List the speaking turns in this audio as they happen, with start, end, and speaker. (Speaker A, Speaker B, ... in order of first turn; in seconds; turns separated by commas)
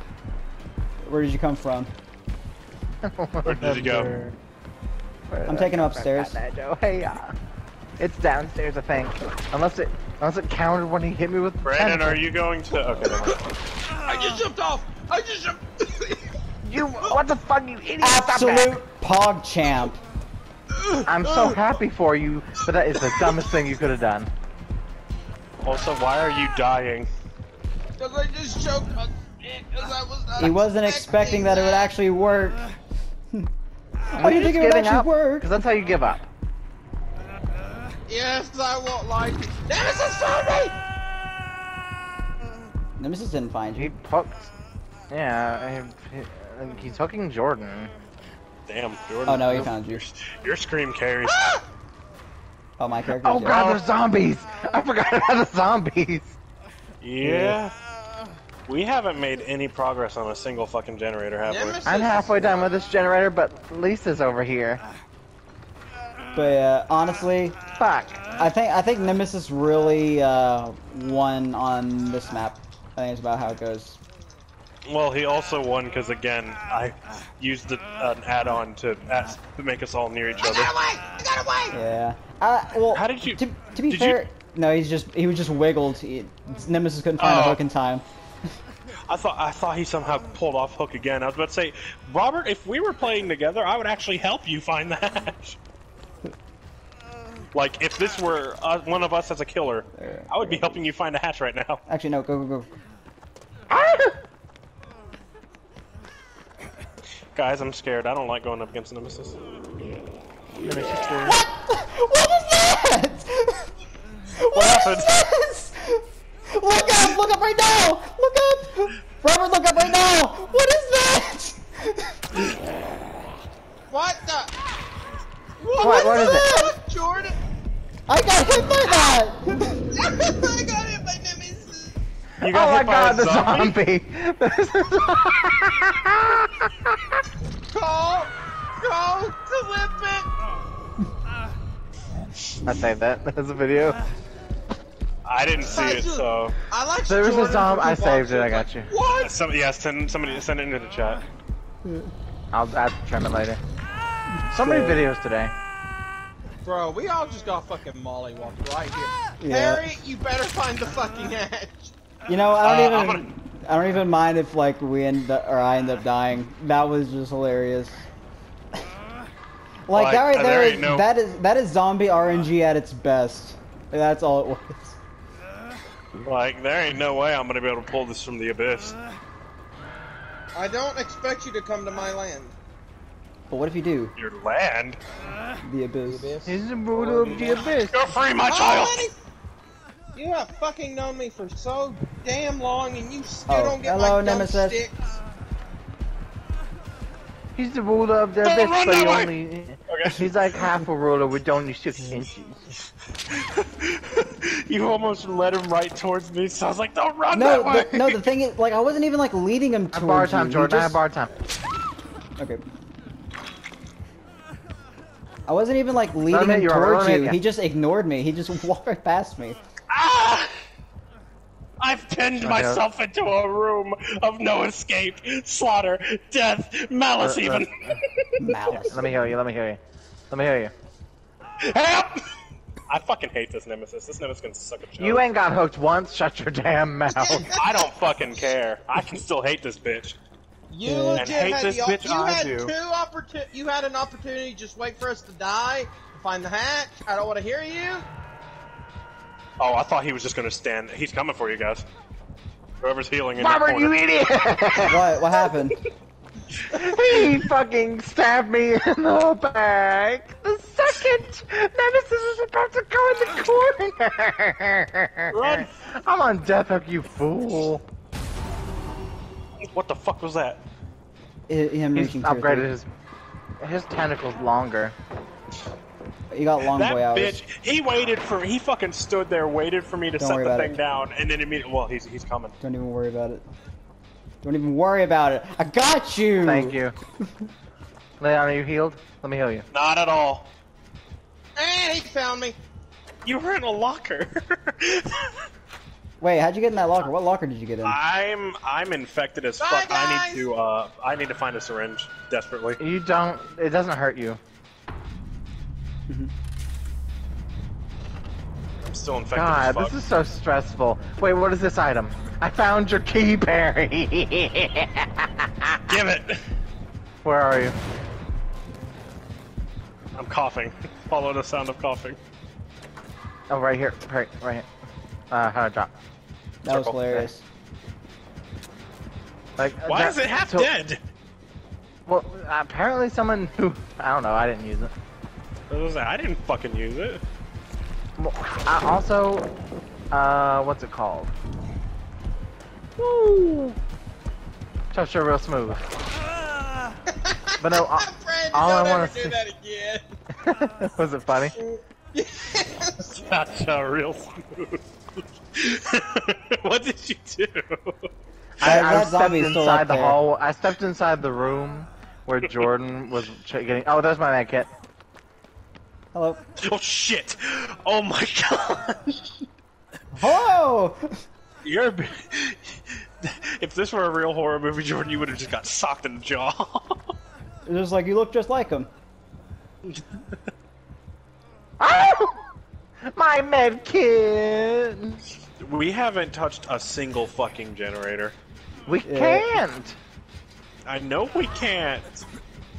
Speaker A: 1.0-1.9, Speaker B: 3.0-4.2, Speaker C: 3.4-4.3, Speaker B: 5.3-7.3, Speaker A: 5.5-6.4, Speaker B: 8.0-12.2, Speaker C: 11.6-13.4, Speaker D: 14.0-16.3, Speaker B: 16.6-18.8, Speaker A: 18.0-20.0, Speaker D: 20.7-21.6, Speaker B: 21.1-24.3, Speaker D: 23.1-23.4, Speaker C: 25.6-27.1, Speaker D: 28.0-31.9, Speaker A: 30.4-32.6, Speaker A: 34.1-35.5, Speaker B: 34.2-36.2, Speaker D: 38.1-40.8, Speaker A: 43.0-43.9, Speaker B: 43.8-44.5, Speaker B: 45.1-47.9, Speaker C: 48.7-51.5, Speaker A: 49.2-50.0, Speaker A: 52.8-53.6, Speaker B: 53.2-56.4, Speaker C: 53.5-53.8, Speaker C: 57.0-57.7, Speaker A: 57.2-57.6, Speaker C: 58.7-61.8, Speaker D: 61.4-62.7, Speaker B: 61.9-64.8, Speaker A: 66.3-67.6, Speaker B: 67.8-68.2, Speaker A: 68.4-74.0, Speaker C: 74.8-80.7, Speaker D: 80.4-81.8, Speaker A: 81.7-88.0, Speaker C: 82.9-84.2, Speaker C: 87.2-87.6, Speaker C: 89.1-95.6, Speaker C: 97.5-101.8, Speaker A: 100.0-100.9, Speaker A: 101.9-102.7, Speaker B: 103.7-104.1, Speaker C: 107.3-109.3, Speaker B: 110.6-111.3, Speaker A: 111.2-113.7, Speaker A: 114.4-122.2, Speaker C: 114.5-115.1, Speaker D: 123.9-124.5, Speaker D: 125.6-127.3, Speaker B: 125.8-126.5, Speaker A: 125.8-126.7, Speaker A: 128.1-129.8, Speaker D: 129.9-132.0, Speaker C: 132.4-133.8, Speaker B: 132.4-137.0, Speaker D: 137.7-140.3, Speaker B: 142.6-144.0, Speaker C: 145.2-146.6, Speaker D: 145.7-149.3, Speaker B: 147.1-148.9, Speaker C: 149.1-151.2, Speaker A: 151.8-152.1, Speaker B: 152.5-153.6, Speaker A: 154.5-155.1, Speaker B: 154.5-155.5, Speaker D: 156.6-161.9, Speaker A: 159.4-159.8, Speaker A: 162.3-168.0, Speaker C: 162.6-163.3, Speaker A: 169.9-175.0, Speaker C: 169.9-171.1, Speaker C: 176.2-178.9, Speaker D: 180.5-182.5, Speaker A: 183.5-184.1, Speaker C: 184.2-185.0, Speaker A: 185.6-186.3, Speaker D: 186.0-187.8, Speaker B: 186.4-188.0, Speaker C: 187.9-189.1, Speaker D: 188.4-189.1, Speaker D: 190.1-195.2, Speaker A: 193.5-194.8, Speaker B: 197.5-202.3, Speaker C: 198.4-199.3, Speaker C: 199.9-200.3, Speaker C: 203.3-208.2, Speaker A: 207.3-211.0, Speaker B: 209.9-211.3, Speaker A: 212.4-212.6, Speaker A: 215.5-219.6, Speaker B: 216.3-217.4, Speaker C: 219.9-220.5, Speaker C: 221.8-228.5, Speaker B: 222.4-222.8, Speaker B: 227.2-227.9, Speaker A: 228.4-229.1, Speaker B: 228.7-230.7, Speaker C: 231.6-232.2, Speaker C: 232.9-235.2, Speaker B: 235.0-237.5, Speaker D: 237.1-237.8, Speaker C: 237.5-240.2, Speaker D: 240.7-248.1, Speaker A: 240.8-241.3, Speaker C: 241.2-242.7, Speaker C: 249.6-251.8, Speaker C: 252.8-253.9, Speaker B: 253.3-255.2, Speaker A: 254.9-255.7, Speaker B: 256.7-267.8, Speaker C: 265.3-265.7, Speaker C: 269.7-270.6, Speaker A: 271.5-272.7, Speaker B: 271.9-272.9, Speaker B: 273.6-274.9, Speaker A: 276.3-277.4, Speaker C: 276.6-282.5, Speaker A: 280.2-280.8, Speaker A: 282.6-283.4, Speaker A: 284.4-286.8, Speaker B: 286.4-286.9, Speaker B: 288.2-289.6, Speaker C: 289.7-290.5, Speaker D: 291.6-292.6, Speaker C: 293.2-295.3, Speaker A: 296.2-298.0, Speaker C: 297.8-302.8, Speaker D: 299.6-300.4, Speaker B: 302.8-304.4, Speaker C: 308.8-309.9, Speaker B: 309.3-316.0, Speaker C: 315.9-316.4, Speaker B: 317.2-317.8, Speaker C: 320.1-322.2, Speaker B: 323.5-324.7, Speaker B: 325.3-325.9, Speaker A: 326.6-327.4, Speaker C: 326.7-327.0, Speaker B: 327.0-327.3, Speaker B: 329.6-330.7, Speaker C: 329.8-331.0, Speaker B: 332.1-334.9, Speaker C: 335.7-337.2, Speaker B: 338.2-339.5, Speaker B: 340.1-341.3, Speaker B: 343.0-343.7, Speaker B: 344.9-345.8, Speaker D: 347.1-350.1, Speaker B: 347.6-349.4, Speaker B: 350.4-351.5, Speaker D: 351.6-353.1, Speaker C: 353.0-354.8, Speaker C: 355.5-358.0, Speaker B: 358.6-364.7, Speaker A: 358.6-360.2, Speaker C: 358.6-359.0, Speaker A: 366.1-366.4, Speaker C: 366.6-369.4, Speaker A: 370.1-371.0, Speaker C: 371.6-377.0, Speaker A: 377.6-378.9, Speaker B: 381.8-382.4, Speaker B: 383.1-385.2, Speaker C: 385.6-388.4, Speaker B: 388.9-390.0, Speaker A: 389.0-389.6, Speaker C: 390.9-392.2